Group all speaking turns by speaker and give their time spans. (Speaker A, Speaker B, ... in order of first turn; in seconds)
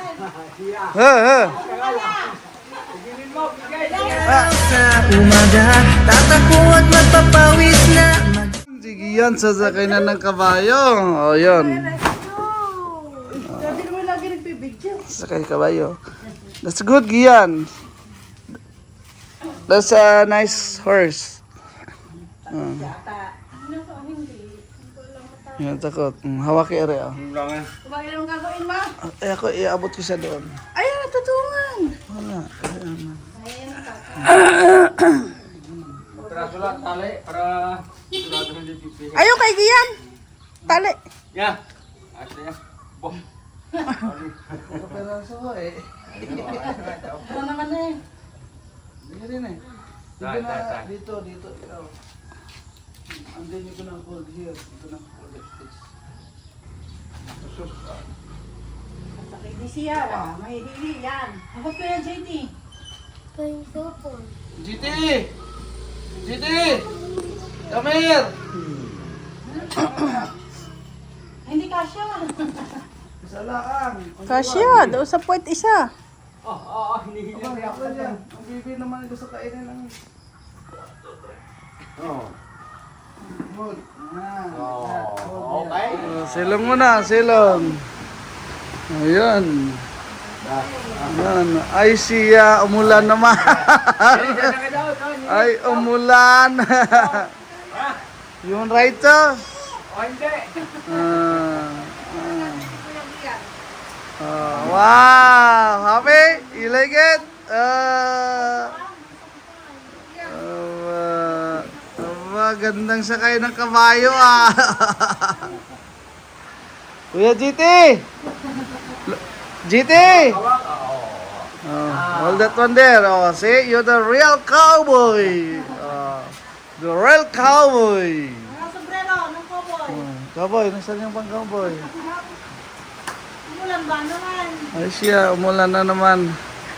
Speaker A: 0.5-0.8, 1.8-2.1, 2.9-4.2, 27.3-27.7, 36.2-39.2, 42.1-43.1, 44.0-44.5, 46.3-47.4, 76.5-77.3, 82.0-82.3, 84.7-86.0, 94.3-95.2, 99.9-100.5, 120.5-121.2
Speaker B: 0.9-1.7, 4.2-4.7, 8.6-12.0, 13.4-13.8, 15.0-16.0, 16.6-17.7, 19.6-21.4, 22.5-22.9, 25.6-27.2, 29.0-30.5, 32.1-33.3, 34.2-35.5, 44.6-47.0, 49.0-49.6, 50.2-51.9, 53.1-55.7, 64.5-65.3, 66.2-66.9, 67.7-68.3, 69.8-70.2, 73.2-75.0, 77.3-79.9, 83.4-87.8, 88.9-89.8, 91.0-94.7, 95.2-97.3, 98.4-99.5, 100.8-102.8, 104.2-108.8, 110.2-115.5, 117.1-118.0, 119.1-120.4, 121.6-128.6, 129.9-131.9, 134.7-136.4
Speaker C: 1.7-2.3, 3.8-4.2, 11.6-15.0, 22.8-25.7, 27.8-28.9, 30.8-32.0, 33.3-34.3, 36.3-36.7, 39.1-39.9, 40.7-41.0, 47.2-47.9, 59.2-62.5, 63.4-64.3, 71.5-72.7, 74.3-75.9, 102.6-103.5, 108.7-110.2, 128.5-130.0, 131.9-132.2, 133.5-134.7
Speaker D: 4.6-8.5